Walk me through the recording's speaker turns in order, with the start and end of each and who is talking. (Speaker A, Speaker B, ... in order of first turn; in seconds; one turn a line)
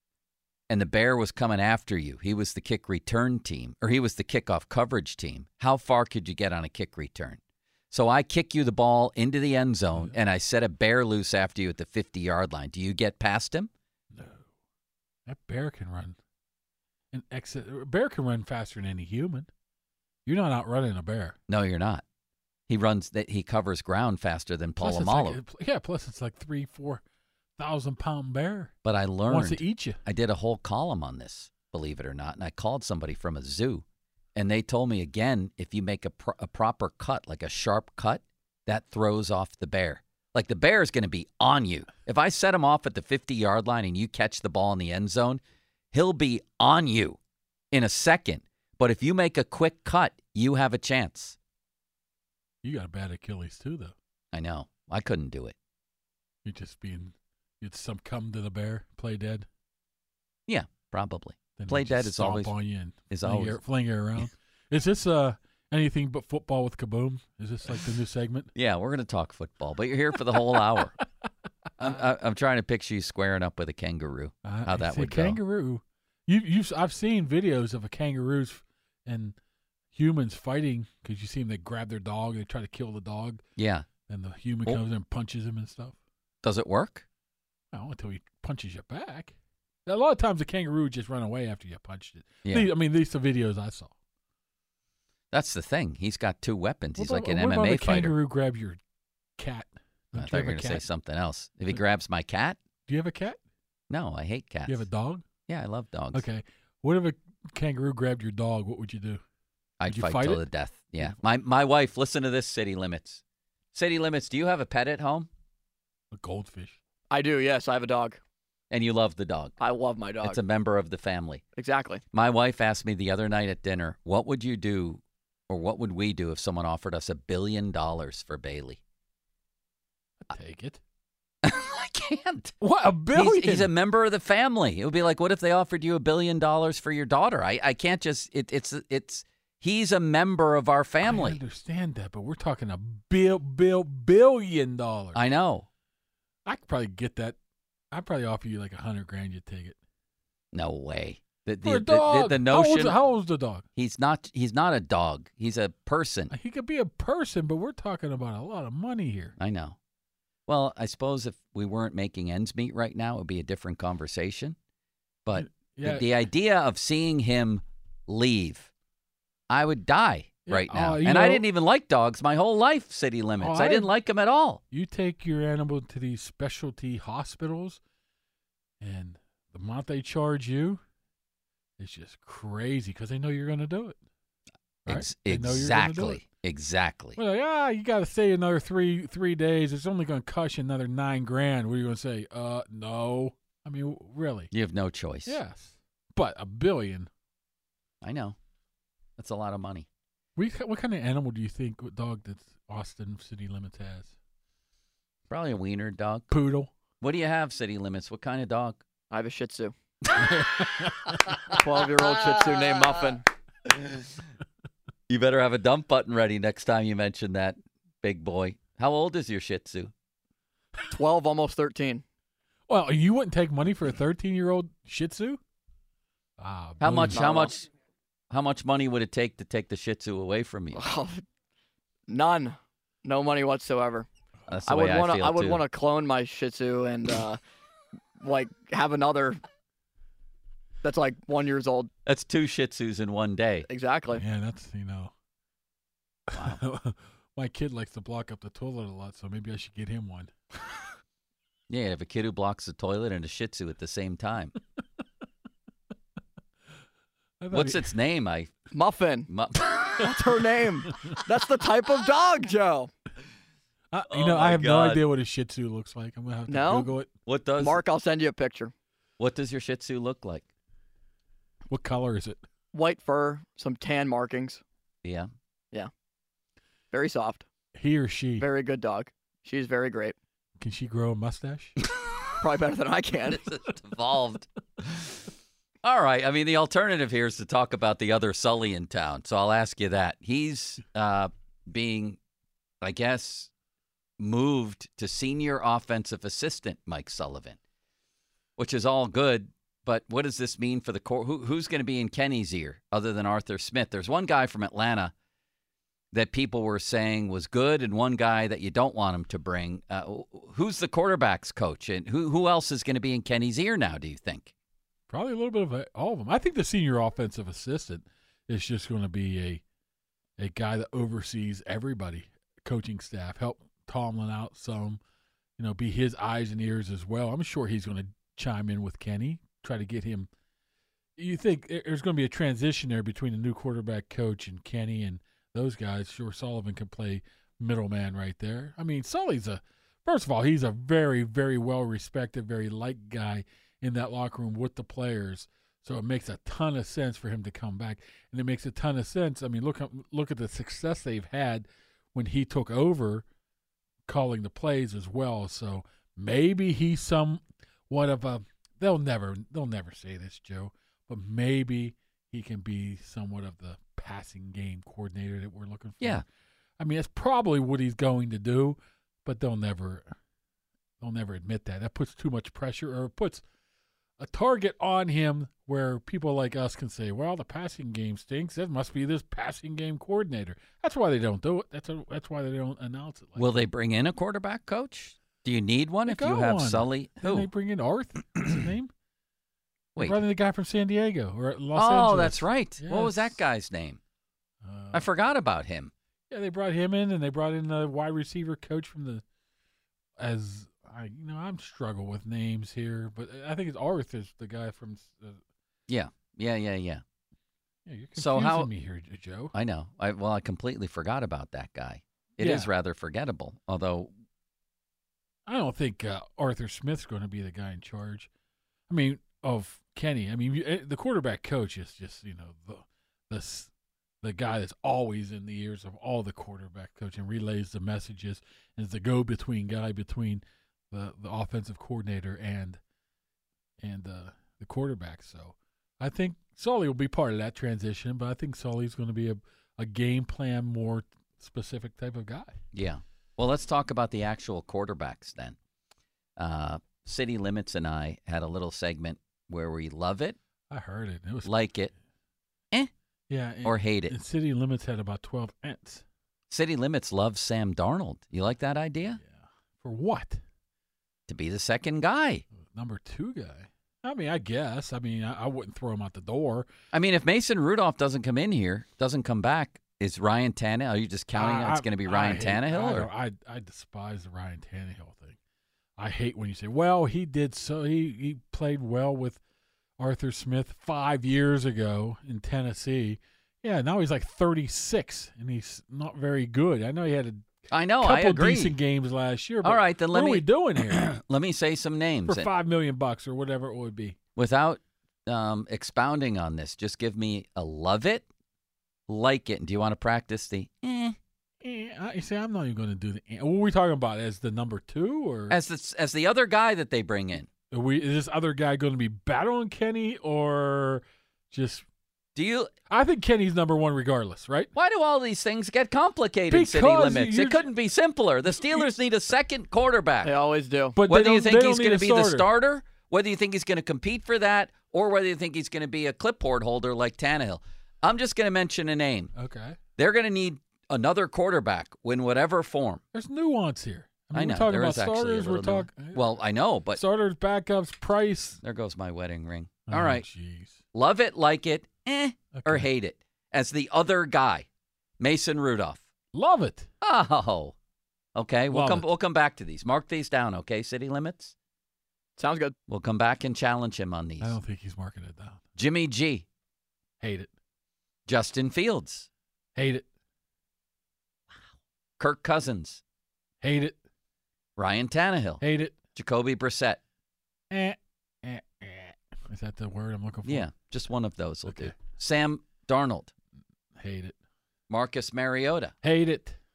Speaker A: 0.7-13.7
Speaker B: 14.1-14.5
Speaker B: 15.3-16.2
Speaker B: 17.1-19.5
Speaker B: 20.3-21.4
Speaker A: 21.5-22.0
Speaker A: 22.7-25.4
Speaker B: 24.8-27.0
Speaker B: 27.6-28.7
Speaker A: 28.8-33.8
Speaker B: 29.3-30.0
Speaker A: 34.4-47.2
Speaker A: 47.7-51.4
Speaker B: 52.6-53.9
Speaker A: 54.3-55.5
Speaker B: 56.4-59.5
Speaker A: 60.5-62.5
Speaker B: 61.6-68.5
Speaker A: 63.1-63.6
Speaker A: 68.5-71.0
Speaker A: 71.8-75.4
Speaker B: 74.4-79.4
Speaker B: 79.9-83.4
Speaker A: 83.6-83.9
Speaker B: 84.1-86.0
Speaker A: 86.4-87.1
Speaker B: 87.7-89.3
Speaker B: 89.9-93.9
Speaker A: 92.5-92.7
Speaker A: 95.3-98.2
Speaker B: 97.0-98.8
Speaker B: 99.4-100.8
Speaker A: 100.2-102.6
Speaker B: 102.9-103.4
Speaker A: 103.9-104.9
Speaker B: 104.7-105.2
Speaker A: 105.5-106.2
Speaker B: 106.1-109.2
Speaker A: 109.8-113.2
Speaker B: 109.9-110.5
Speaker A: 113.7-115.3
Speaker B: 116.1-116.8
Speaker C: 117.1-118.2
Speaker A: 118.7-119.6
Speaker C: 119.6-120.4
Speaker A: 120.2-121.4
Speaker C: 121.6-122.0
Speaker A: 122.1-128.8
Speaker B: 130.2-130.8
Speaker A: 131.4-132.5
Speaker B: 132.6-133.7
Speaker A: 133.2-141.4
Speaker B: 141.0-145.2
Speaker A: 145.2-145.7
Speaker B: 146.5-147.4
Speaker B: 147.9-149.8
Speaker A: 150.5-153.0
Speaker B: 151.6-153.6
Speaker A: 153.8-156.3
Speaker B: 156.3-159.3
Speaker A: 159.4-159.8
Speaker A: 160.5-164.6
Speaker A: 165.2-168.7
Speaker B: 165.3-166.1
Speaker A: 169.5-174.6
Speaker B: 170.5-171.4
Speaker B: 173.4-173.9
Speaker B: 174.7-177.8
Speaker B: 178.8-180.8
Speaker B: 181.8-184.0
Speaker B: 184.9-186.2
Speaker A: 184.9-187.2
Speaker B: 187.2-194.5
Speaker A: 194.5-195.4
Speaker B: 195.3-197.1
Speaker A: 198.0-198.4
Speaker A: 199.2-199.9
Speaker B: 200.4-204.1
Speaker A: 205.3-206.3
Speaker B: 206.3-206.7
Speaker A: 207.0-208.8
Speaker C: 209.1-209.7
Speaker A: 210.2-211.3
Speaker B: 210.2-211.1
Speaker C: 211.5-213.3
Speaker A: 213.7-214.2
Speaker A: 215.1-219.9
Speaker C: 220.9-222.0
Speaker B: 222.7-225.4
Speaker B: 226.4-227.2
Speaker A: 226.8-227.7
Speaker C: 227.2-227.6
Speaker A: 228.3-230.8
Speaker C: 230.7-231.2
Speaker C: 232.1-234.1
Speaker A: 234.5-235.6
Speaker C: 234.7-237.4
Speaker C: 238.2-239.4
Speaker C: 240.8-241.9
Speaker A: 242.1-243.7
Speaker C: 243.7-244.2
Speaker B: 244.2-245.1
Speaker B: 246.3-250.3
Speaker A: 246.3-246.6
Speaker A: 251.7-254.6
Speaker B: 257.4-257.9
Speaker A: 257.5-258.6
Speaker C: 258.7-259.3
Speaker A: 259.3-260.2
Speaker C: 259.9-262.9
Speaker B: 263.9-267.1
Speaker A: 264.1-265.0
Speaker C: 266.5-266.9
Speaker A: 267.3-267.8
Speaker C: 267.6-268.7
Speaker A: 269.2-270.5
Speaker B: 271.7-272.4
Speaker C: 272.7-274.6
Speaker A: 275.0-275.3
Speaker C: 276.9-277.5
Speaker B: 277.8-278.5
Speaker C: 278.4-280.1
Speaker B: 280.6-281.8
Speaker C: 282.4-283.5
Speaker A: 283.3-285.3
Speaker A: 285.8-292.2
Speaker A: 292.8-293.5
Speaker A: 294.2-297.6
Speaker A: 298.6-305.1
Speaker A: 306.1-314.5
Speaker B: 315.1-319.6
Speaker B: 320.4-325.0
Speaker B: 325.6-330.3
Speaker B: 331.2-353.2
Speaker B: 354.1-366.2
Speaker B: 366.8-370.1
Speaker B: 371.0-373.4
Speaker B: 374.2-383.6
Speaker A: 383.4-387.5
Speaker B: 386.1-388.9
Speaker A: 389.9-390.2
Speaker B: 390.0-393.4
Speaker A: 391.8-394.0
Speaker B: 394.6-395.1
Speaker A: 394.9-395.9
Speaker B: 396.3-399.2
Speaker B: 400.2-405.4
Speaker A: 405.9-407.0
Speaker B: 407.9-409.5
Speaker A: 408.2-408.7
Speaker A: 409.5-414.1
Speaker B: 412.4-412.7
Speaker B: 415.5-418.3
Speaker B: 418.9-423.7
Speaker B: 424.2-432.8
Speaker B: 433.8-442.6
Speaker A: 442.7-445.6
Speaker A: 446.4-450.4
Speaker B: 450.7-451.5
Speaker A: 451.4-451.9
Speaker B: 453.3-456.0
Speaker A: 453.6-454.1
Speaker A: 456.5-459.2
Speaker B: 459.2-460.4
Speaker A: 461.3-462.4
Speaker B: 462.8-466.7
Speaker A: 466.9-473.1
Speaker B: 471.3-475.4
Speaker B: 476.0-479.4
Speaker B: 480.0-491.1
Speaker A: 487.7-488.8
Speaker A: 489.6-492.5
Speaker B: 492.3-494.2
Speaker A: 494.4-498.3
Speaker A: 499.1-501.2
Speaker B: 501.6-505.6
Speaker A: 505.5-507.5
Speaker B: 507.7-511.9
Speaker A: 512.4-512.7
Speaker B: 512.9-514.7
Speaker A: 514.8-520.3
Speaker B: 516.5-517.7
Speaker C: 520.2-521.0
Speaker B: 521.0-522.5
Speaker A: 521.1-529.3
Speaker B: 529.4-529.8
Speaker A: 530.0-533.0
Speaker B: 533.1-536.3
Speaker A: 534.3-537.0
Speaker B: 536.9-538.6
Speaker A: 538.6-540.3
Speaker B: 539.9-540.8
Speaker A: 540.9-544.7
Speaker B: 542.5-542.9
Speaker A: 545.2-546.0
Speaker B: 546.3-546.9
Speaker A: 547.0-547.8
Speaker A: 548.4-551.5
Speaker B: 548.7-549.1
Speaker C: 552.4-552.8
Speaker A: 552.9-554.5
Speaker B: 554.4-555.6
Speaker A: 555.8-556.5
Speaker B: 557.2-557.5
Speaker A: 558.3-559.3
Speaker B: 559.8-560.1
Speaker A: 562.2-563.0
Speaker B: 563.6-564.0
Speaker A: 564.8-565.6
Speaker B: 565.6-566.0
Speaker A: 566.1-567.0
Speaker B: 567.7-570.7
Speaker A: 570.5-573.3
Speaker B: 571.7-572.0
Speaker B: 574.0-574.4
Speaker A: 574.9-576.0
Speaker B: 576.0-576.6